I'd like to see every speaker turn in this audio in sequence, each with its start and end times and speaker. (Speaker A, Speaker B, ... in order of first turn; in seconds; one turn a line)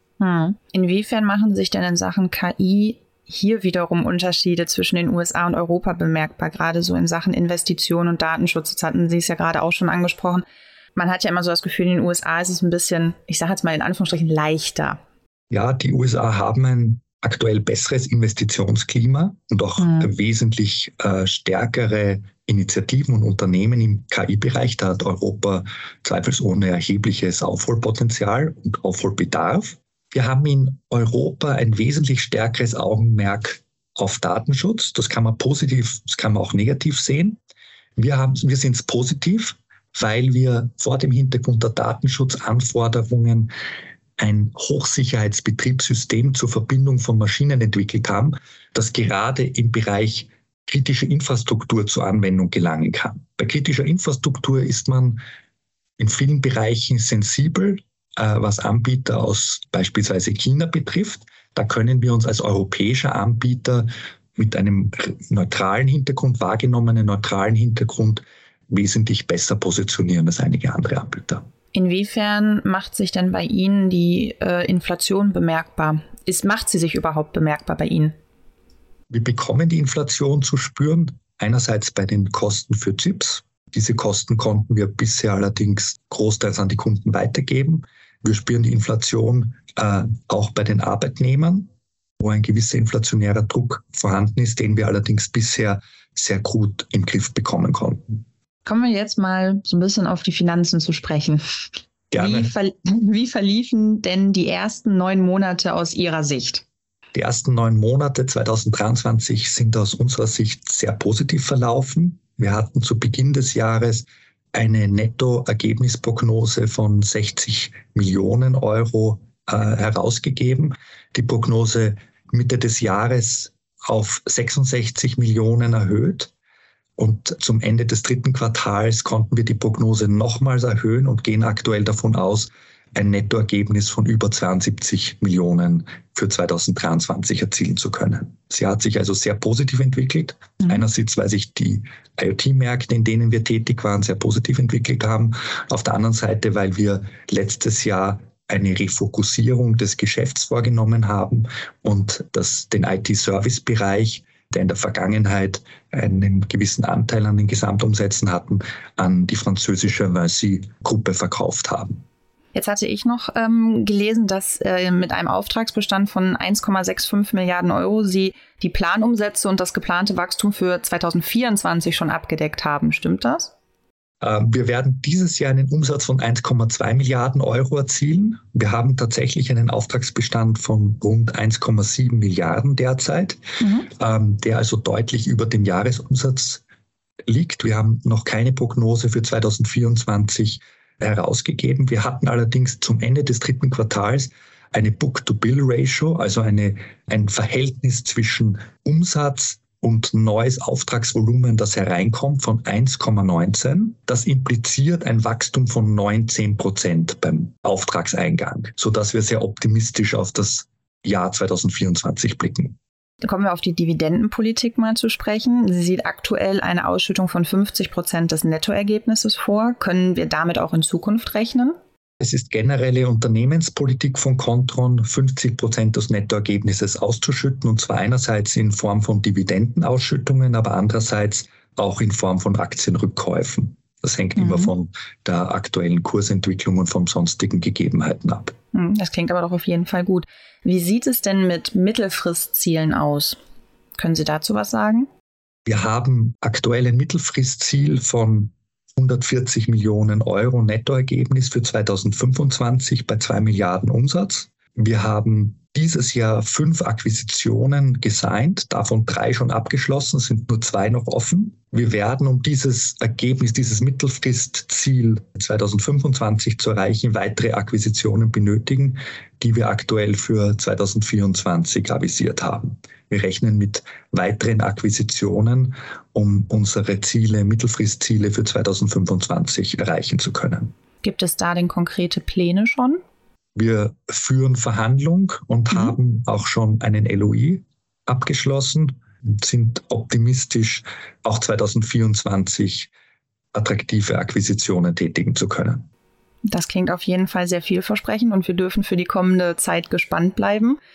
Speaker A: 0.2-15.0
Speaker B: 15.5-37.4
Speaker A: 19.8-20.1
Speaker B: 38.0-43.5
Speaker B: 44.2-55.2
Speaker B: 56.0-71.5
Speaker A: 71.7-78.1
Speaker B: 79.1-98.2
Speaker A: 98.7-101.4
Speaker B: 102.1-102.5
Speaker A: 102.1-106.7
Speaker B: 107.1-126.3
Speaker B: 127.0-162.0
Speaker A: 162.5-173.5
Speaker B: 174.2-186.6
Speaker A: 183.6-183.9
Speaker B: 187.3-212.8
Speaker A: 213.2-221.8
Speaker B: 222.2-238.5
Speaker A: 234.4-234.7
Speaker A: 238.7-243.4
Speaker A: 244.0-245.1
Speaker B: 245.7-280.7
Speaker A: 281.0-283.0
Speaker B: 283.6-292.9
Speaker B: 293.5-295.9
Speaker A: 296.5-300.8